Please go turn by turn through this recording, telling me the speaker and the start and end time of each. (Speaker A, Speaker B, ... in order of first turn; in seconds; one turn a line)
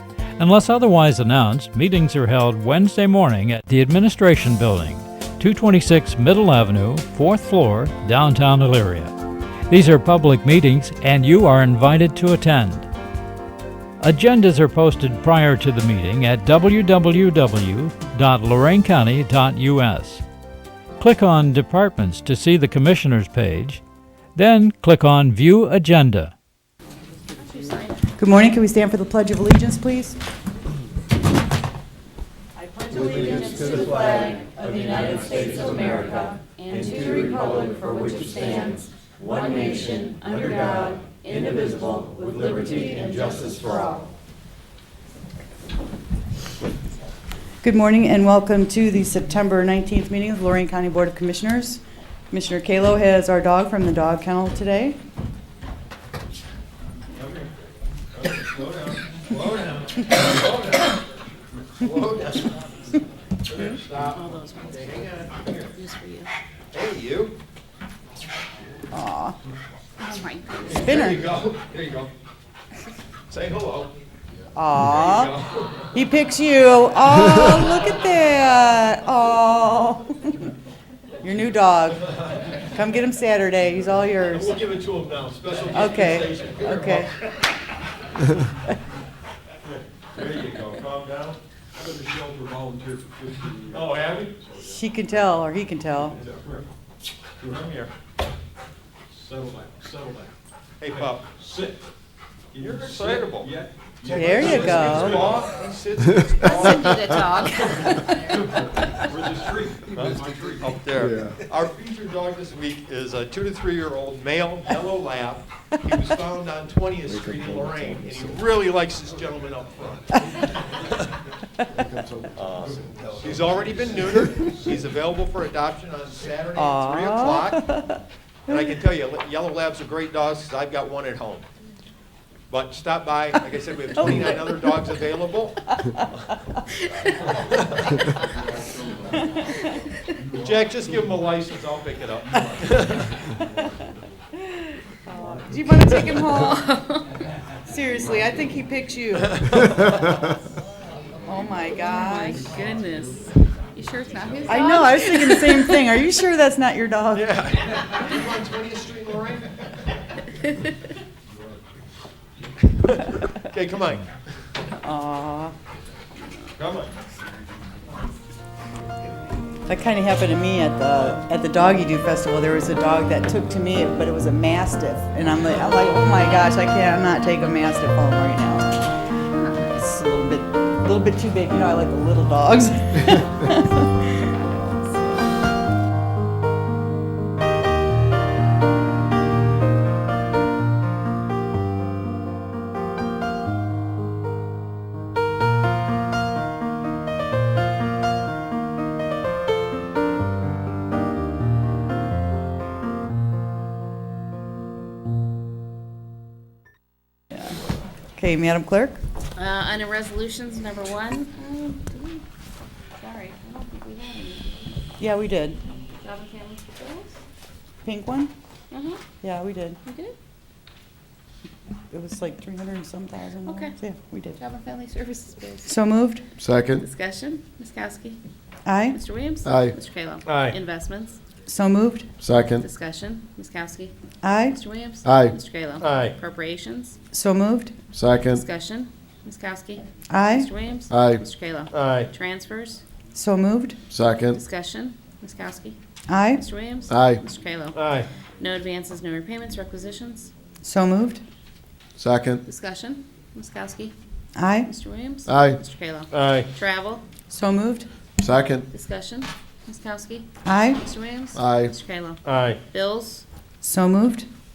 Speaker A: 0.4-9.1
Speaker A: 9.7-12.9
Speaker A: 14.0-20.2
Speaker A: 21.0-23.8
Speaker A: 24.4-26.3
Speaker B: 27.3-28.0
Speaker C: 28.2-30.2
Speaker B: 32.6-44.1
Speaker C: 33.0-36.1
Speaker C: 36.8-37.6
Speaker C: 42.6-43.1
Speaker C: 47.6-55.0
Speaker D: 58.1-61.0
Speaker D: 61.8-62.6
Speaker D: 63.5-65.7
Speaker B: 63.5-66.3
Speaker D: 66.7-67.4
Speaker C: 68.9-69.4
Speaker B: 70.0-71.1
Speaker D: 70.7-72.1
Speaker C: 70.7-71.3
Speaker D: 73.3-73.9
Speaker C: 74.5-75.4
Speaker D: 74.8-75.7
Speaker C: 75.9-80.5
Speaker C: 81.2-84.6
Speaker D: 84.3-87.2
Speaker C: 85.7-87.1
Speaker D: 90.2-91.4
Speaker E: 91.8-95.2
Speaker D: 93.7-94.4
Speaker C: 94.6-96.2
Speaker E: 96.1-96.7
Speaker E: 97.4-97.8
Speaker D: 97.4-97.9
Speaker E: 99.1-100.3
Speaker D: 100.8-101.3
Speaker E: 100.9-101.9
Speaker E: 102.5-105.7
Speaker D: 102.6-103.5
Speaker C: 104.1-105.4
Speaker D: 104.1-106.9
Speaker B: 106.4-108.7
Speaker E: 107.6-110.9
Speaker D: 109.9-120.5
Speaker F: 111.0-111.4
Speaker F: 117.1-118.4
Speaker F: 121.8-123.3
Speaker D: 122.3-127.6
Speaker E: 122.7-124.7
Speaker C: 126.5-128.7
Speaker D: 128.5-131.5
Speaker D: 132.5-135.6
Speaker C: 133.9-134.9
Speaker C: 135.7-136.1
Speaker D: 140.4-143.1
Speaker E: 140.9-141.2
Speaker C: 145.1-146.6
Speaker B: 146.2-147.2
Speaker C: 147.7-150.0
Speaker D: 149.3-149.8
Speaker C: 151.3-152.5
Speaker B: 151.8-155.9
Speaker C: 154.5-157.4
Speaker D: 157.1-159.6
Speaker D: 162.7-164.1
Speaker C: 164.8-165.5
Speaker D: 166.6-166.9
Speaker C: 169.7-178.9
Speaker B: 179.4-179.8
Speaker C: 179.7-185.2
Speaker C: 208.2-209.0
Speaker B: 209.4-212.2
Speaker B: 213.0-214.8
Speaker C: 215.0-215.6
Speaker B: 216.0-217.2
Speaker C: 217.8-218.3
Speaker B: 218.7-219.0
Speaker C: 219.2-219.8
Speaker B: 219.8-220.2
Speaker C: 221.9-224.4
Speaker B: 223.4-223.8
Speaker B: 224.4-225.7
Speaker C: 225.7-226.2
Speaker F: 226.4-226.8
Speaker B: 226.8-228.2
Speaker C: 228.7-229.0
Speaker B: 228.9-231.2
Speaker F: 229.4-229.8
Speaker D: 230.3-230.6
Speaker C: 231.5-232.1
Speaker F: 232.2-232.7
Speaker B: 232.6-233.9
Speaker C: 234.2-234.6
Speaker B: 234.5-237.0
Speaker F: 235.0-235.3
Speaker D: 235.8-236.2
Speaker C: 237.1-237.8
Speaker F: 237.9-238.4
Speaker B: 238.2-242.8
Speaker C: 240.1-240.5
Speaker F: 240.9-241.2
Speaker D: 241.7-242.1
Speaker C: 243.1-243.8
Speaker F: 243.9-244.4
Speaker B: 244.3-245.8
Speaker C: 246.1-246.4
Speaker B: 246.3-250.3
Speaker F: 246.9-247.2
Speaker D: 247.8-248.1
Speaker C: 250.6-251.2
Speaker F: 252.0-252.4
Speaker B: 252.4-253.9
Speaker C: 254.4-254.7
Speaker B: 254.6-257.0
Speaker F: 255.3-255.6
Speaker D: 256.1-256.5
Speaker C: 257.3-257.9
Speaker F: 258.2-258.7
Speaker B: 258.7-263.2
Speaker C: 260.4-260.8
Speaker F: 261.4-261.7
Speaker D: 262.2-262.6
Speaker C: 263.6-264.3